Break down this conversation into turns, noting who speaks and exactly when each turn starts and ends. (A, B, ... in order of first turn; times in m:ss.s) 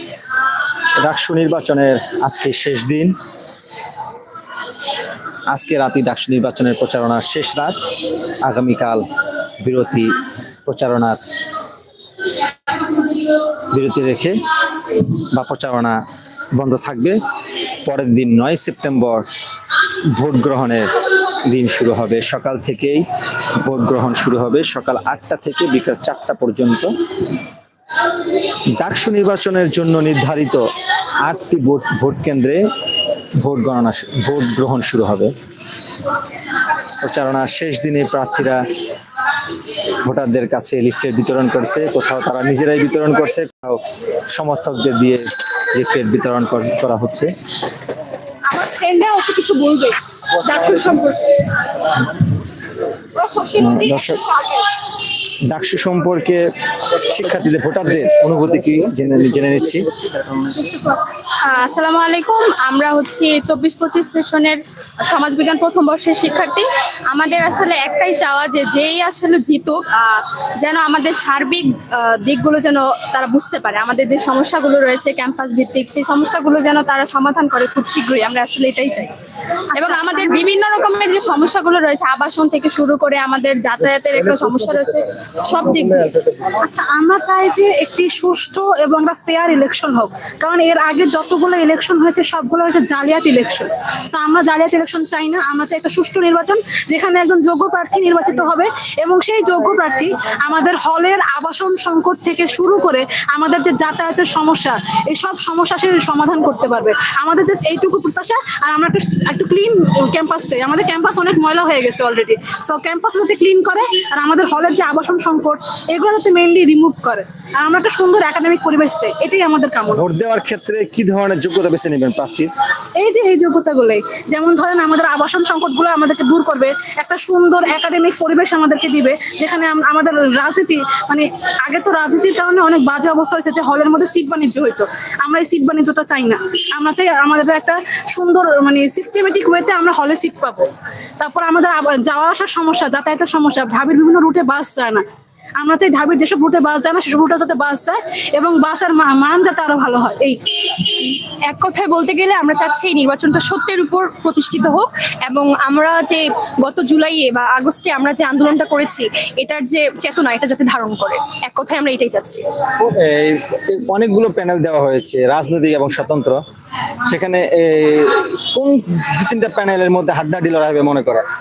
0:01.0-0:03.2 A
0:05.5-0:07.8 A
0:08.4-0:09.0 A
0:09.6-0:11.2 A
0:13.7-0:16.0 A
0:16.6-0:17.2 A
0:17.8-0:19.2 A
0:20.1-0:20.9 A
0:21.4-0:23.0 A
0:23.6-0:26.9 A
0:28.8-0:30.6 A
0:31.2-0:32.6 A
0:33.4-0:35.3 A
0:37.0-0:38.6 A
0:40.0-0:47.3 A
0:48.5-0:49.9 B
0:50.8-0:51.1 B
0:53.5-0:54.3 A
0:55.4-0:59.9 A
1:00.5-1:19.1 C
1:19.8-1:20.4 D
1:19.8-1:26.2 C
1:26.6-2:00.0 D
1:59.9-2:02.5 A
2:03.0-2:25.0 D
2:25.6-2:30.4 D
2:31.5-2:42.4 B
2:42.8-2:46.4 A
2:47.1-2:51.2 A